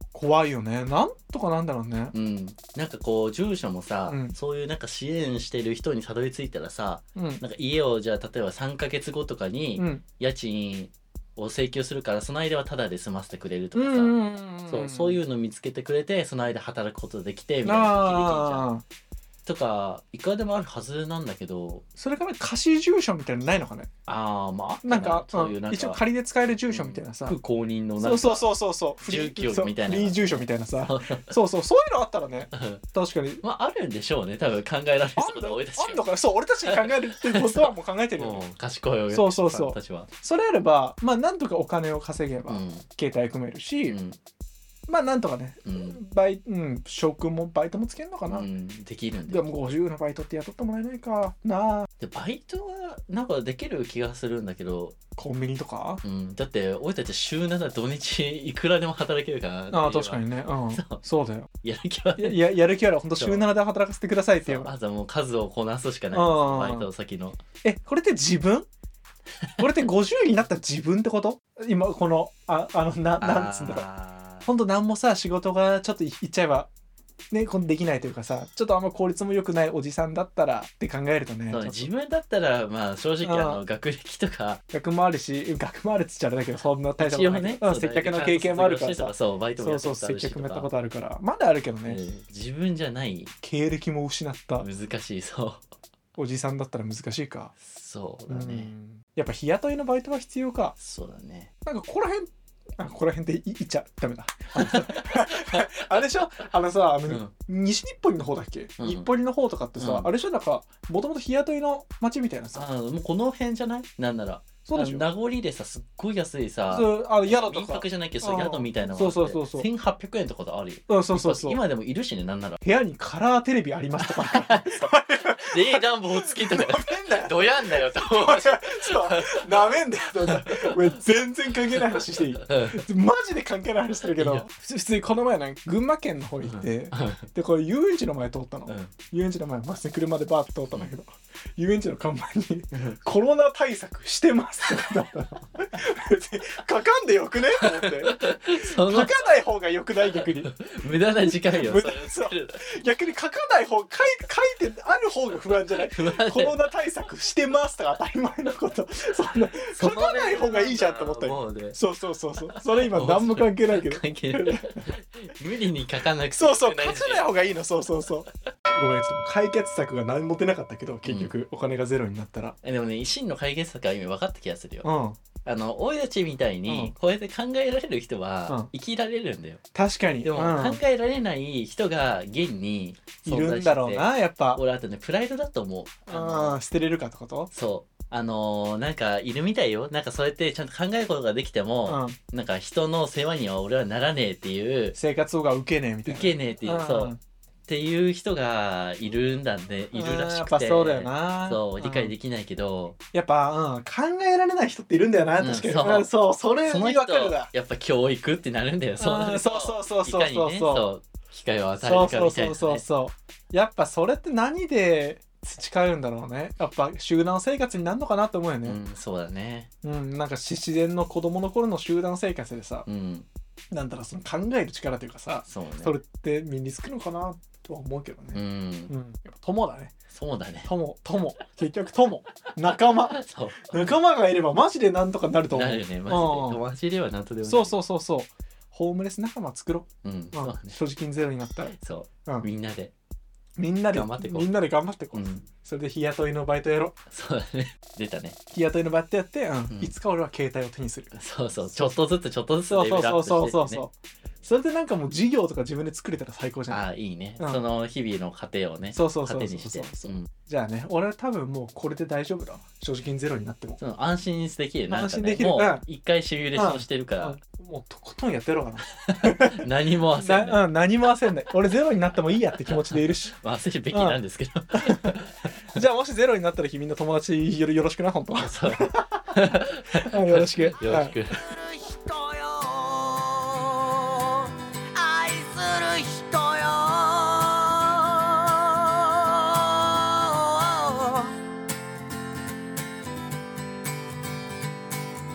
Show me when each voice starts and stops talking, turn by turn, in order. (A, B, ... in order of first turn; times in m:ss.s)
0:00.1-0:02.1 A
0:02.1-0:18.7 B
0:04.0-0:04.4 A
0:07.2-0:07.4 A
0:09.8-0:10.0 A
0:13.7-0:15.2 A
0:17.6-0:18.8 A
0:19.4-0:21.8 B
0:22.0-0:23.9 A
0:24.0-0:26.0 B
0:24.8-0:27.4 A
0:26.6-0:31.3 B
0:28.0-0:33.4 A
0:32.5-0:32.8 B
0:33.4-0:36.1 B
0:35.2-0:38.4 A
0:36.6-0:40.1 B
0:39.1-0:44.0 A
0:42.5-0:42.8 B
0:43.8-0:44.2 B
0:44.9-0:48.5 A
0:45.6-0:46.0 B
0:48.3-0:49.5 B
0:49.3-0:51.9 A
0:52.0-0:55.0 B
0:55.2-0:56.0 A
0:56.0-1:01.0 B
0:59.7-1:01.5 A
1:01.6-1:02.5 B
1:02.2-1:04.7 A
1:03.2-1:03.5 B
1:04.4-1:07.4 B
1:06.1-1:06.9 A
1:07.6-1:08.6 A
1:09.4-1:09.9 B
1:09.6-1:13.9 A
1:13.2-1:14.5 B
1:14.4-1:16.7 A
1:17.3-1:21.9 A
1:21.5-1:24.6 B
1:23.2-1:23.6 A
1:24.7-1:32.0 A
1:27.0-1:30.7 B
1:31.8-1:33.3 B
1:33.4-1:34.7 A
1:34.6-1:35.6 B
1:36.2-1:37.5 A
1:37.6-1:38.7 B
1:38.3-1:40.7 A
1:40.8-1:41.5 B
1:41.6-1:52.7 A
1:44.6-1:44.8 B
1:47.1-1:47.3 B
1:48.8-1:49.1 B
1:49.8-1:50.1 B
1:52.5-2:02.6 B
1:54.6-1:55.0 A
1:56.7-1:59.7 A
2:00.9-2:01.6 A
2:02.6-2:30.5 A
2:04.0-2:04.9 B
2:05.4-2:11.0 B
2:11.6-2:12.8 B
2:14.1-2:14.5 B
2:16.4-2:17.3 B
2:18.7-2:18.9 B
2:27.6-2:29.2 B
2:30.1-2:32.7 B
2:31.3-2:44.9 A
2:35.9-2:36.6 B
2:39.4-2:41.8 B
2:42.5-2:47.5 B
2:46.4-2:52.6 A
2:51.0-2:51.3 B
2:52.6-2:54.9 B
2:54.8-2:55.2 A
2:55.4-2:59.6 B
2:56.6-2:56.9 A
2:59.7-3:00.8 A
3:00.2-3:06.6 B
3:03.2-3:04.6 A
3:06.1-3:07.5 A
3:07.5-3:15.0 B
3:11.8-3:12.2 A
3:14.9-3:17.2 A
3:16.0-3:17.1 B
3:17.7-3:23.0 B
3:19.9-3:22.1 A
3:23.1-3:27.5 A
3:25.4-3:26.1 B
3:26.6-3:32.8 B
3:29.0-3:30.9 A
3:31.8-3:38.8 A
3:38.6-3:39.7 B
3:39.8-3:42.8 A
3:42.8-3:43.3 B
3:43.7-3:49.9 A
3:45.4-3:46.0 B
3:48.3-3:48.9 B
3:50.1-3:50.7 B
3:50.6-3:56.6 A
3:52.7-3:53.9 B
3:55.5-3:57.8 B
3:57.4-4:02.5 A
4:00.0-4:00.8 B
4:01.7-4:02.9 B
4:03.6-4:07.0 A
4:03.9-4:04.5 B
4:05.1-4:05.5 B
4:07.1-4:08.4 B
4:08.5-4:11.1 A
4:09.7-4:09.9 B
4:11.1-4:13.8 B
4:11.6-4:12.0 A
4:12.7-4:16.8 A
4:16.7-4:20.3 B
4:18.9-4:23.8 A
4:23.8-4:27.4 B
4:24.9-4:25.8 A
4:26.5-4:33.3 A
4:29.0-4:30.6 B
4:32.7-4:35.5 B
4:33.9-4:34.2 A
4:34.7-4:35.1 A
4:35.7-4:39.3 A
4:38.4-4:41.4 B
4:40.0-4:41.2 A
4:41.3-4:51.3 C